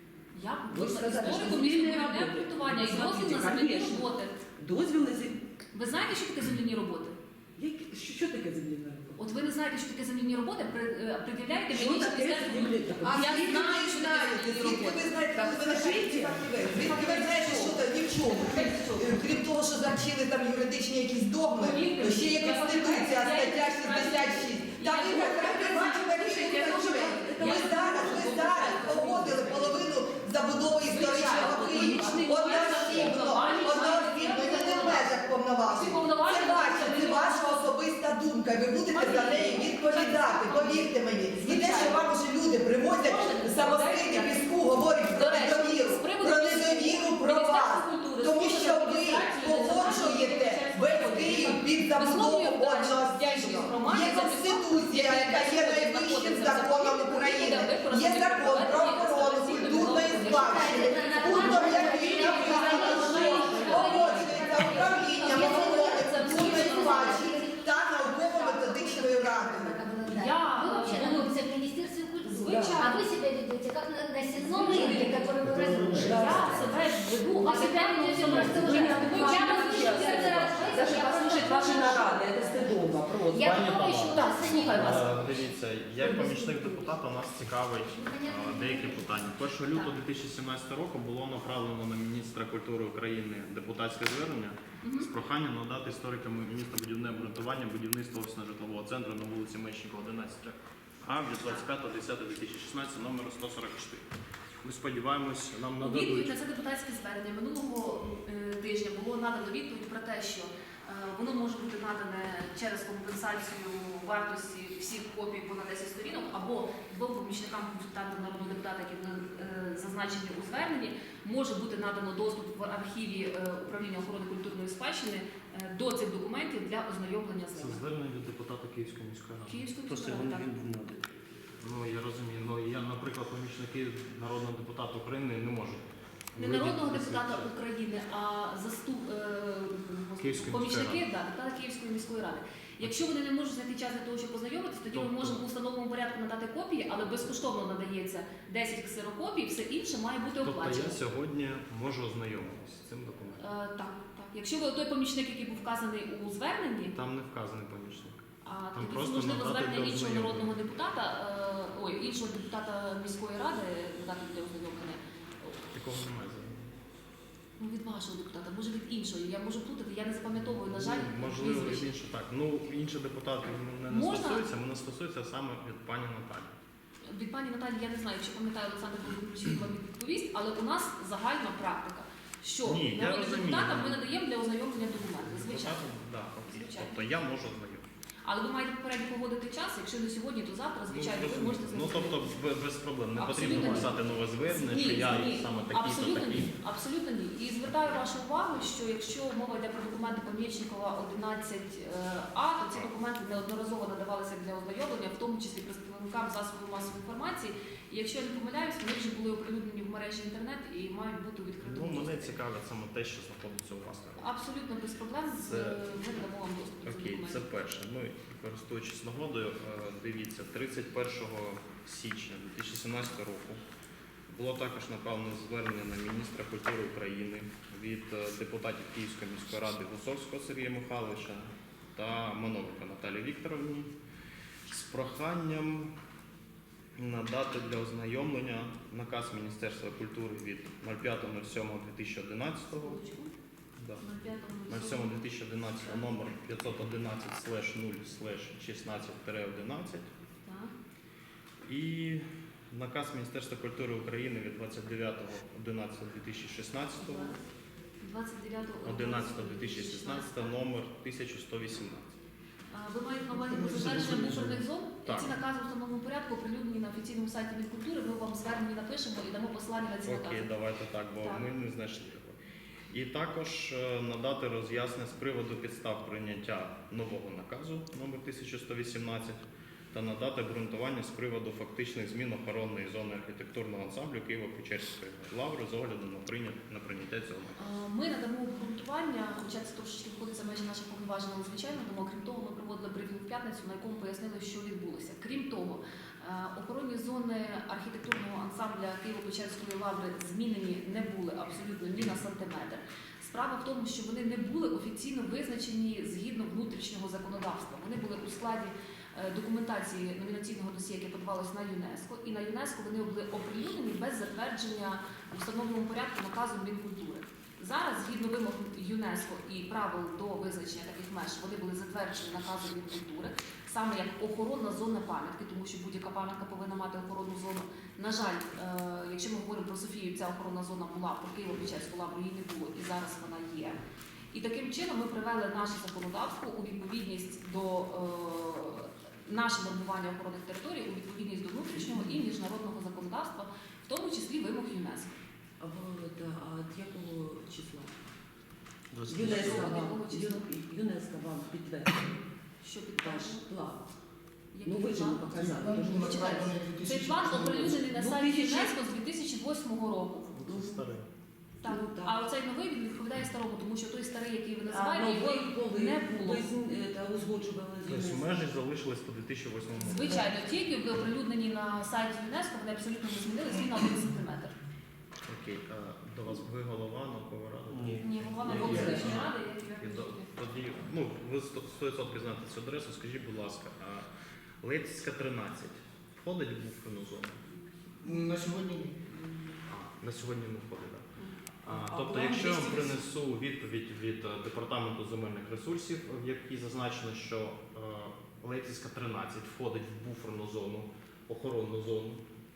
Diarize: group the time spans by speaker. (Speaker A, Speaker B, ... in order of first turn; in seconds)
Speaker A: 0.3-4.4, 5.7-7.2, 9.2-15.1, 16.6-19.2, 21.5-29.9, 30.9-35.1, 35.7-37.6, 38.9-42.0, 43.0-44.5, 45.0-67.4, 70.1-71.4, 72.2-73.0, 74.4-82.7, 83.4-85.2, 94.8-95.1, 105.8-127.8, 129.5-130.5, 136.3-151.0, 153.4-156.9, 158.4-165.5, 167.6-171.9, 173.9-174.4, 177.1-185.9, 186.4-187.0, 188.2-192.2, 193.2-212.4, 214.2-217.4, 242.8-243.3, 244.0-245.2, 250.4-250.7, 257.0-257.4, 258.0-260.5, 262.7-270.5, 287.6-333.8, 334.3-345.1, 349.1-350.5, 352.6-353.4, 354.5-360.3, 361.6-366.4, 369.8-374.6, 378.0-380.3
Speaker B: 0.7-5.4, 7.6-9.2, 11.7-13.6, 15.3-17.0, 26.7-29.6, 31.5-33.5, 61.4-64.7, 72.4-72.9, 74.7-75.3, 75.9-76.7, 78.0-83.7, 345.6-347.9, 349.1-352.2, 352.9-353.9, 354.6-356.4, 357.9-358.7, 360.4-360.8, 361.6-362.2, 364.6-368.3, 378.5-379.1, 389.1-389.6, 391.7-393.0
Speaker C: 13.0-69.8
Speaker D: 59.6-82.7, 83.3-87.0, 87.8-89.9
Speaker E: 75.4-75.9, 83.3-104.1, 104.6-106.3, 127.5-129.7, 131.6-137.5, 140.2-141.0, 144.9-145.4, 150.4-153.4, 156.9-158.2, 158.7-160.6, 165.7-166.8, 170.4-176.6, 182.6-184.0, 185.2-187.8, 190.9-196.5, 211.6-214.3, 215.3-215.8, 216.8-223.6, 224.3-233.9, 234.7-235.9, 236.9-243.0, 243.8-244.0, 244.7-250.1, 251.6-257.3, 258.8-262.2, 263.7-264.4, 265.0-265.4, 270.0-272.4, 272.9-279.4, 279.9-287.6, 348.9-349.7, 360.3-361.1, 367.8-370.3, 375.3-384.1, 384.6-387.4, 389.7-391.1, 391.6-402.2
Speaker F: 129.8-131.0, 349.0-349.7, 377.7-378.0
Speaker G: 263.5-264.6, 355.3-358.1, 388.0-389.1